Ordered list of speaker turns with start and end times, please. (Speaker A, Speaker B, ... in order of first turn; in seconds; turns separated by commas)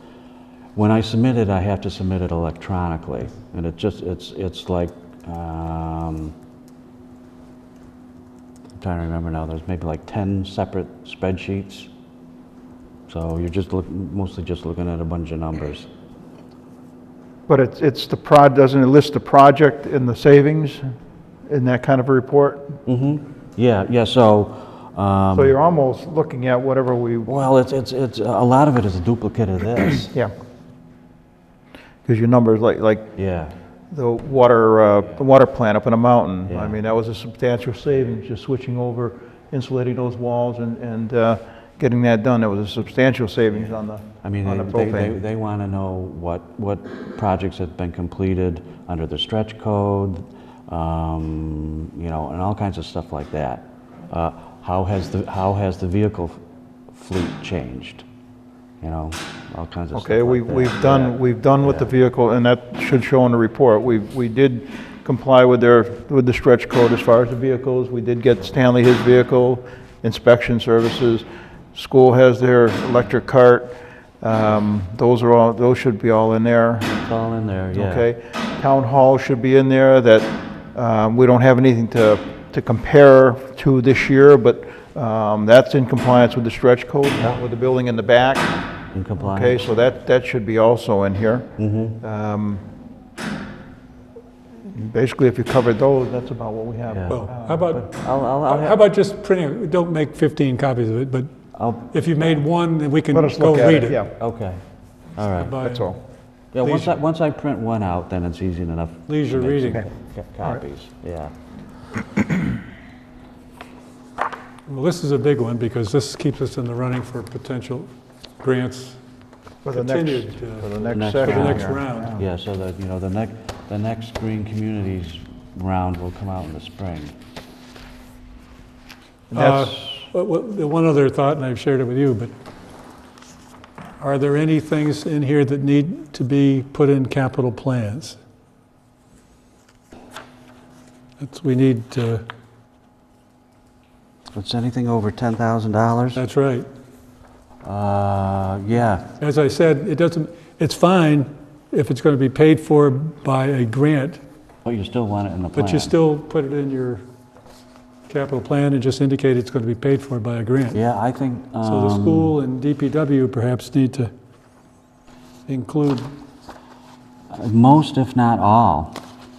Speaker A: 0.7-6.3, Speaker A: 8.8-11.9, Speaker A: 13.1-15.9, Speaker B: 17.5-20.9, Speaker B: 21.4-22.8, Speaker A: 22.9-25.5, Speaker B: 25.3-27.4, Speaker A: 27.2-30.1, Speaker B: 32.0-33.1, Speaker A: 33.1-33.5, Speaker B: 33.9-45.2, Speaker A: 36.5-36.8, Speaker A: 44.2-56.4, Speaker A: 56.9-58.0, Speaker A: 58.8-61.9, Speaker B: 59.9-76.9, Speaker A: 76.8-78.1, Speaker B: 77.7-88.6, Speaker A: 88.9-89.7, Speaker B: 89.2-92.6, Speaker A: 91.6-92.0, Speaker B: 94.6-97.7, Speaker A: 96.9-98.8, Speaker C: 97.1-101.3, Speaker A: 101.5-102.3, Speaker C: 101.9-104.0, Speaker B: 103.1-104.1, Speaker A: 104.2-104.6, Speaker A: 105.2-105.6, Speaker C: 105.4-105.9, Speaker B: 105.6-106.0, Speaker A: 106.5-111.3, Speaker C: 106.6-107.0, Speaker C: 109.1-109.8, Speaker C: 114.7-117.9, Speaker C: 118.4-119.0, Speaker B: 119.6-122.2, Speaker C: 119.7-122.2, Speaker A: 120.9-127.1, Speaker B: 129.3-130.1, Speaker C: 129.3-132.3, Speaker C: 134.0-138.2, Speaker C: 141.2-142.2, Speaker A: 144.3-146.2, Speaker C: 146.1-146.7, Speaker A: 147.6-149.1, Speaker C: 149.2-154.2, Speaker A: 154.6-155.9, Speaker C: 155.5-157.0, Speaker C: 158.1-160.8, Speaker A: 160.7-162.3, Speaker C: 161.6-164.1, Speaker C: 165.5-166.2, Speaker A: 167.3-169.0